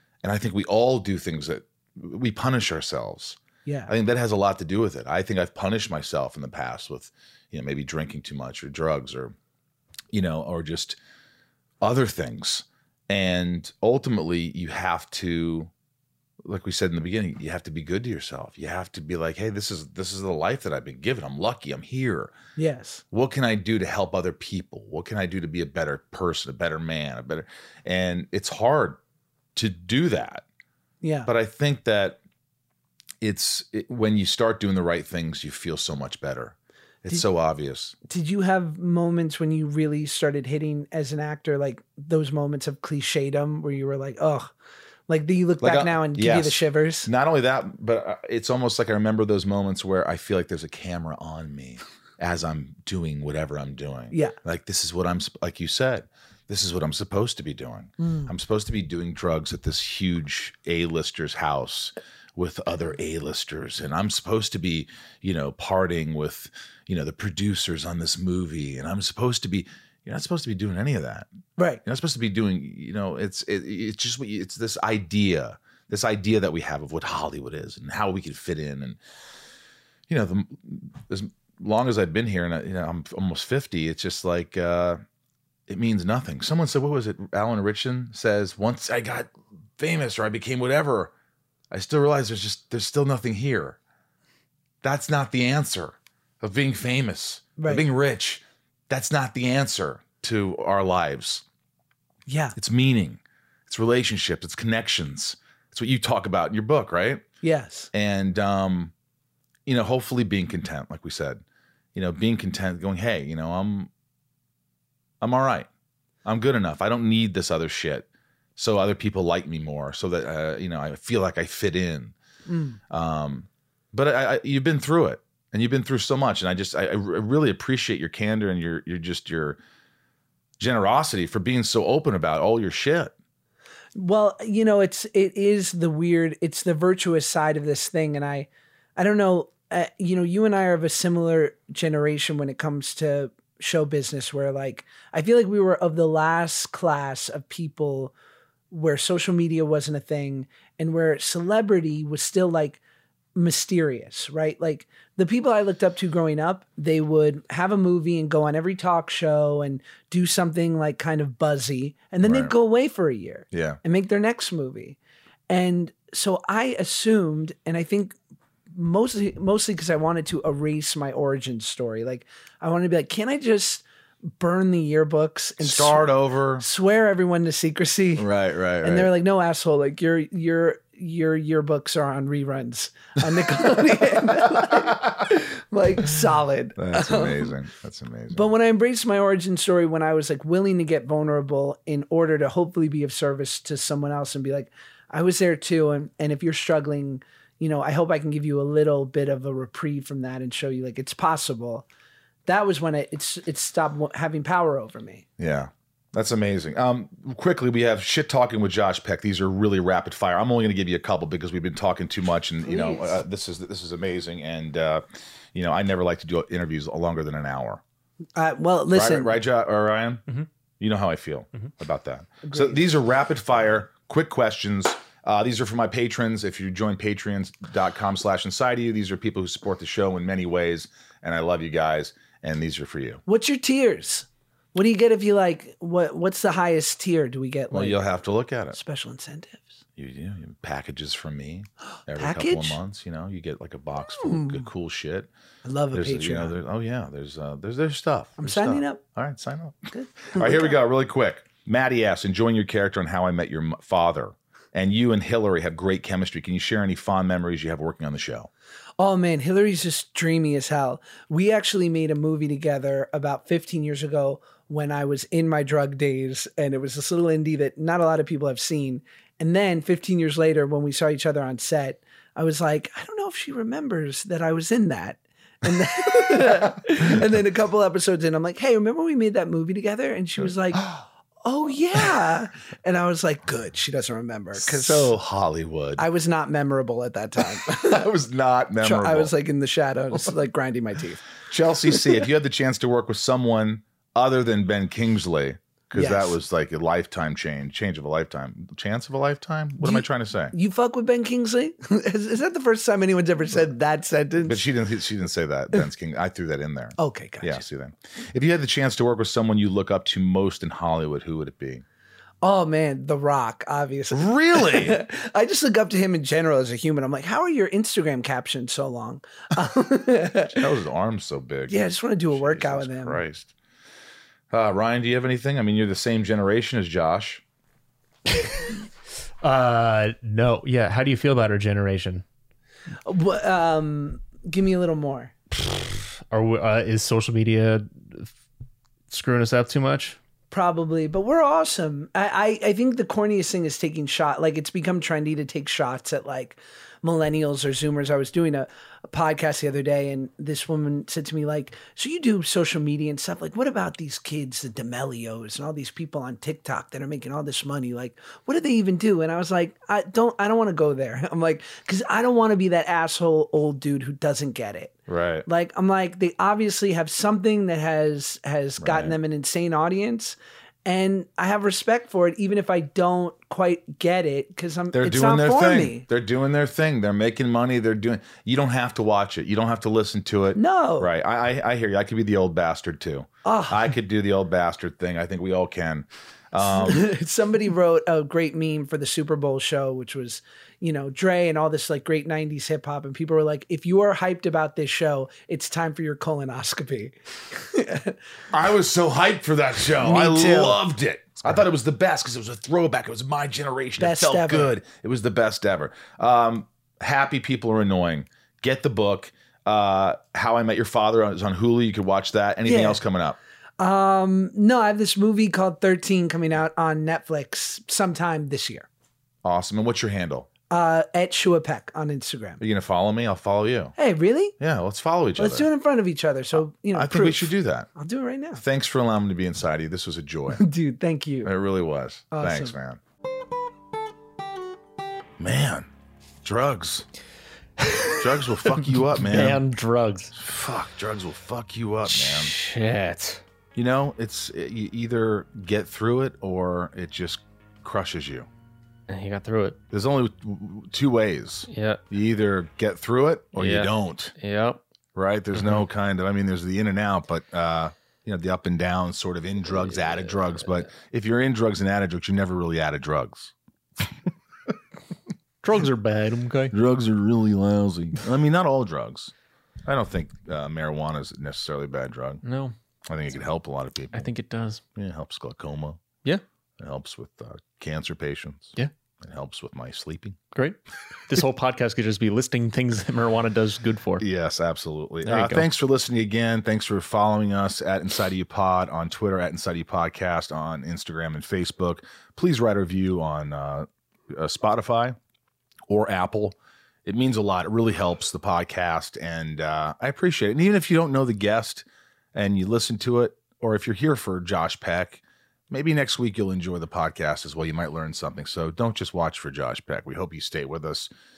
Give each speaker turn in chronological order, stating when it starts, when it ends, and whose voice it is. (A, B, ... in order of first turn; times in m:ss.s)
0:00.2-0:09.4 A
0:03.7-0:03.9 B
0:10.1-0:11.0 A
0:11.8-0:15.7 A
0:16.4-0:22.3 A
0:22.6-0:23.0 B
0:23.1-0:29.0 A
0:29.6-0:30.4 A
0:31.0-0:31.3 B
0:31.3-0:32.2 A
0:33.2-0:38.0 A
0:38.1-0:44.5 B
0:45.1-0:47.1 B
0:45.6-1:11.3 A
0:58.0-0:58.3 B
1:11.6-1:11.8 B
1:11.8-1:19.0 A
1:20.1-1:25.0 A
1:25.7-1:31.1 A
1:31.7-1:33.8 A
1:34.8-1:41.4 A
1:37.6-1:37.8 B
1:42.3-1:42.6 B
1:42.6-1:47.2 A
1:47.4-1:47.9 B
1:47.9-1:48.9 A
1:49.7-1:51.4 A
1:52.0-1:53.9 A
1:55.2-1:55.7 A
1:56.2-2:02.2 A
2:02.5-2:02.8 B
2:02.9-2:09.6 A
2:10.6-2:13.2 A
2:14.0-2:28.1 B
2:28.7-2:32.8 B
2:33.4-2:45.0 B
2:42.2-2:42.5 A
2:43.5-2:43.8 A
2:45.5-2:48.2 B
2:48.7-2:53.9 B
2:54.4-2:56.1 B
2:55.6-2:56.6 A
2:56.6-2:58.3 B
2:58.2-2:59.1 A
2:58.8-3:07.5 B
3:04.2-3:05.2 A
3:06.8-3:08.5 A
3:08.3-3:21.9 B
3:22.5-3:25.2 B
3:25.4-3:37.8 A
3:32.6-3:33.2 B
3:38.4-3:39.4 B
3:38.9-3:40.2 A
3:40.8-3:53.2 A
3:42.4-3:42.8 B
3:53.3-3:58.0 B
3:57.7-3:58.8 A
3:58.7-3:59.7 B
4:00.0-4:05.3 A
4:02.2-4:02.8 B
4:04.2-4:04.6 B
4:05.6-4:06.5 B
4:05.9-4:18.5 A
4:08.4-4:09.0 B
4:09.9-4:10.8 B
4:19.0-4:40.9 B
4:36.1-4:36.8 A
4:41.4-4:45.2 B
4:44.6-4:46.0 A
4:46.0-4:48.0 B
4:47.6-4:49.3 A
4:48.8-4:51.2 B
4:51.5-5:00.6 A
4:55.9-4:56.4 B
4:59.8-5:04.6 B
5:04.4-5:11.8 A
5:07.0-5:07.6 B
5:12.4-5:20.6 B
5:14.1-5:15.0 A
5:20.5-5:21.8 A
5:21.7-5:23.2 B
5:22.3-5:23.5 A
5:24.5-5:27.4 A
5:29.4-5:32.2 C
5:33.0-5:35.3 B
5:35.6-5:38.3 C
5:39.1-5:40.2 C
5:40.5-6:04.9 B
6:05.1-6:05.5 A
6:05.5-6:16.0 B
6:08.8-6:09.2 A
6:14.9-6:27.1 A
6:20.6-6:21.1 B
6:23.4-6:23.9 B
6:26.6-6:38.2 B
6:38.5-6:53.4 A
6:40.0-6:40.8 B
6:44.0-6:44.7 B
6:52.6-6:53.0 B
6:53.8-6:58.9 B
6:59.4-7:00.5 A
7:00.7-7:02.6 B
7:02.6-7:04.0 A
7:04.0-7:04.6 B
7:04.6-7:05.7 A
7:05.4-7:08.6 B
7:06.9-7:07.9 A
7:08.6-7:10.6 A
7:10.5-7:11.5 B
7:11.4-7:13.0 A
7:12.3-7:12.7 B
7:15.4-7:15.9 A
7:16.4-7:17.1 A
7:17.9-7:18.2 C
7:18.1-7:19.6 A
7:19.3-7:20.3 C
7:20.4-7:22.5 A
7:22.1-7:23.4 C
7:23.8-7:28.5 A
7:29.1-7:29.8 C
7:29.9-7:34.4 A
7:31.7-7:32.0 C
7:33.6-7:34.8 C
7:35.2-7:44.1 A
7:40.0-7:40.5 C
7:45.6-7:46.8 C
7:46.7-7:49.3 A
7:49.8-7:52.4 A
7:52.4-7:52.7 C
7:53.1-7:54.3 A
7:54.1-7:54.8 C
7:55.0-7:56.0 A
7:56.8-8:00.4 A
8:01.3-8:04.2 C
8:04.2-8:15.2 A
8:05.2-8:05.7 C
8:15.9-8:31.1 A